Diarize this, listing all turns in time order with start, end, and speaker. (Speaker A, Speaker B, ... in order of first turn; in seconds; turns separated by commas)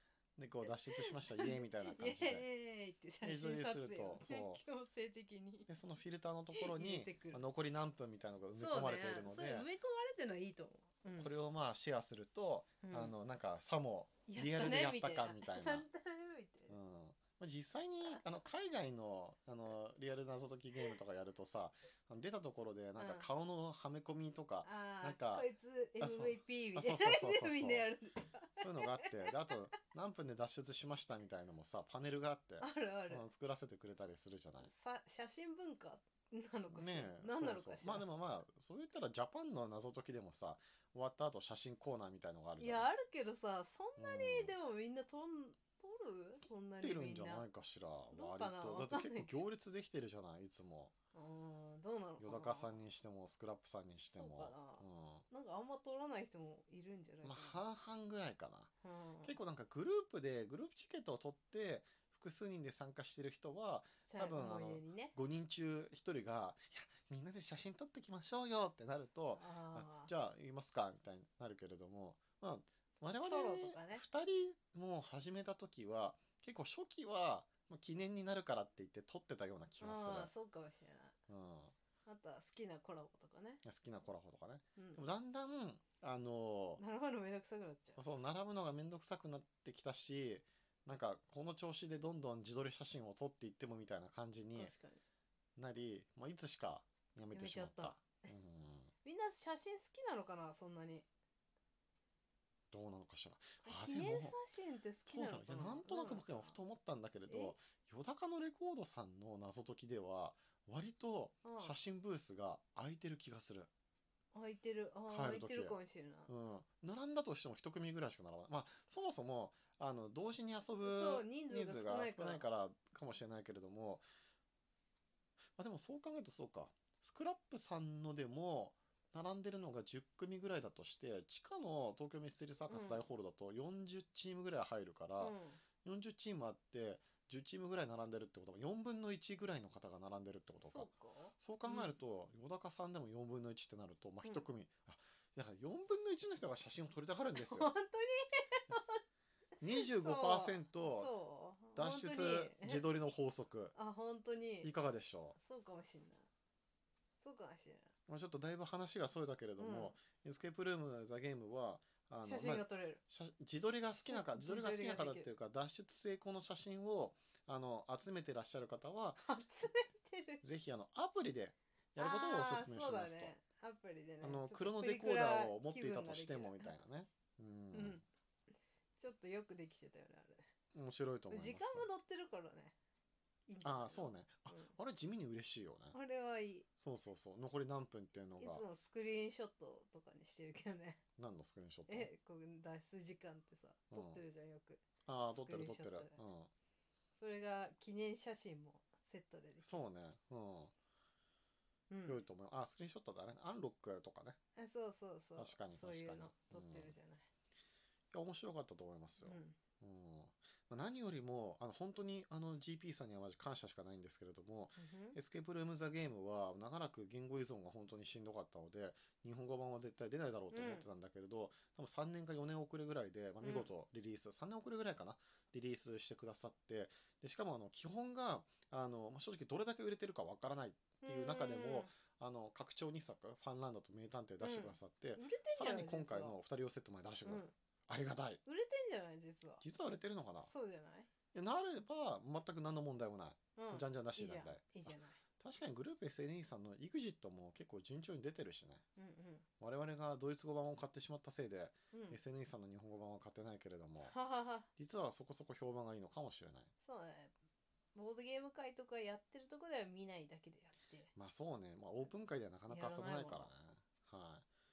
Speaker A: 0.4-2.5, Speaker B: 0.6-5.7, Speaker A: 3.2-4.6, Speaker A: 5.7-9.7, Speaker B: 6.5-7.4, Speaker B: 8.6-11.3, Speaker A: 11.2-15.9, Speaker B: 12.8-13.1, Speaker B: 14.3-16.8, Speaker A: 16.7-25.5, Speaker B: 23.0-23.3, Speaker B: 24.6-29.5, Speaker A: 26.0-27.9, Speaker A: 28.6-34.7, Speaker B: 32.6-33.2, Speaker B: 34.6-38.1, Speaker A: 36.7-42.9, Speaker B: 42.6-47.5, Speaker A: 44.0-44.5, Speaker A: 46.8-50.9, Speaker B: 48.1-49.5, Speaker B: 51.1-52.8, Speaker A: 52.2-55.2, Speaker B: 54.1-57.6, Speaker A: 57.2-58.7, Speaker B: 58.8-59.3, Speaker A: 59.2-80.3, Speaker B: 64.1-65.1, Speaker B: 69.3-70.1, Speaker B: 73.2-74.0, Speaker B: 79.8-81.2, Speaker A: 81.3-81.7, Speaker B: 82.0-83.6, Speaker A: 83.6-86.8, Speaker B: 84.8-85.0, Speaker B: 86.8-88.0, Speaker A: 88.0-94.7, Speaker B: 94.5-95.0, Speaker A: 95.6-98.9, Speaker B: 97.3-98.3, Speaker B: 99.0-101.1, Speaker A: 102.7-104.4, Speaker B: 103.6-106.6, Speaker A: 105.1-113.7, Speaker B: 107.3-107.6, Speaker B: 111.4-111.7, Speaker B: 114.3-116.3, Speaker A: 115.1-115.8, Speaker A: 116.3-124.0, Speaker B: 120.8-122.4, Speaker A: 125.5-147.7, Speaker B: 132.7-133.1, Speaker B: 135.2-135.6, Speaker B: 140.6-141.9, Speaker B: 147.3-149.0, Speaker A: 149.6-151.1, Speaker B: 149.7-152.9, Speaker A: 151.7-153.7, Speaker B: 153.7-154.7, Speaker A: 154.6-155.3, Speaker B: 155.3-156.3, Speaker B: 157.2-157.9, Speaker A: 158.1-169.3, Speaker B: 159.6-160.0, Speaker B: 162.2-163.0, Speaker B: 164.1-165.3, Speaker B: 169.2-170.4, Speaker A: 170.4-173.3, Speaker B: 172.0-176.7, Speaker A: 174.2-178.0, Speaker B: 177.7-178.0, Speaker B: 179.0-180.4, Speaker A: 180.7-181.9, Speaker B: 181.3-182.8, Speaker B: 183.5-184.7, Speaker A: 183.6-186.0, Speaker B: 185.9-186.7, Speaker A: 186.8-188.6, Speaker B: 188.4-191.0, Speaker A: 191.2-192.1, Speaker B: 191.9-196.2, Speaker A: 193.9-194.2, Speaker A: 195.1-196.5, Speaker B: 197.1-199.8, Speaker A: 199.6-200.7, Speaker B: 201.9-202.2, Speaker A: 202.1-204.4, Speaker B: 204.6-207.3, Speaker A: 205.4-206.9, Speaker A: 208.1-238.4, Speaker B: 209.2-209.6, Speaker B: 214.8-215.2, Speaker B: 220.5-220.9, Speaker B: 223.4-223.7, Speaker B: 231.0-231.9, Speaker B: 234.4-236.4, Speaker B: 237.2-237.5, Speaker B: 238.4-239.6, Speaker A: 239.6-240.5, Speaker B: 240.4-241.1, Speaker A: 241.3-248.8, Speaker B: 243.6-245.2, Speaker B: 249.0-249.4, Speaker A: 249.6-254.1, Speaker B: 251.9-252.2, Speaker B: 254.0-254.7, Speaker A: 254.7-256.7, Speaker B: 256.8-257.3, Speaker B: 257.9-261.1, Speaker A: 261.1-264.4, Speaker B: 262.7-263.5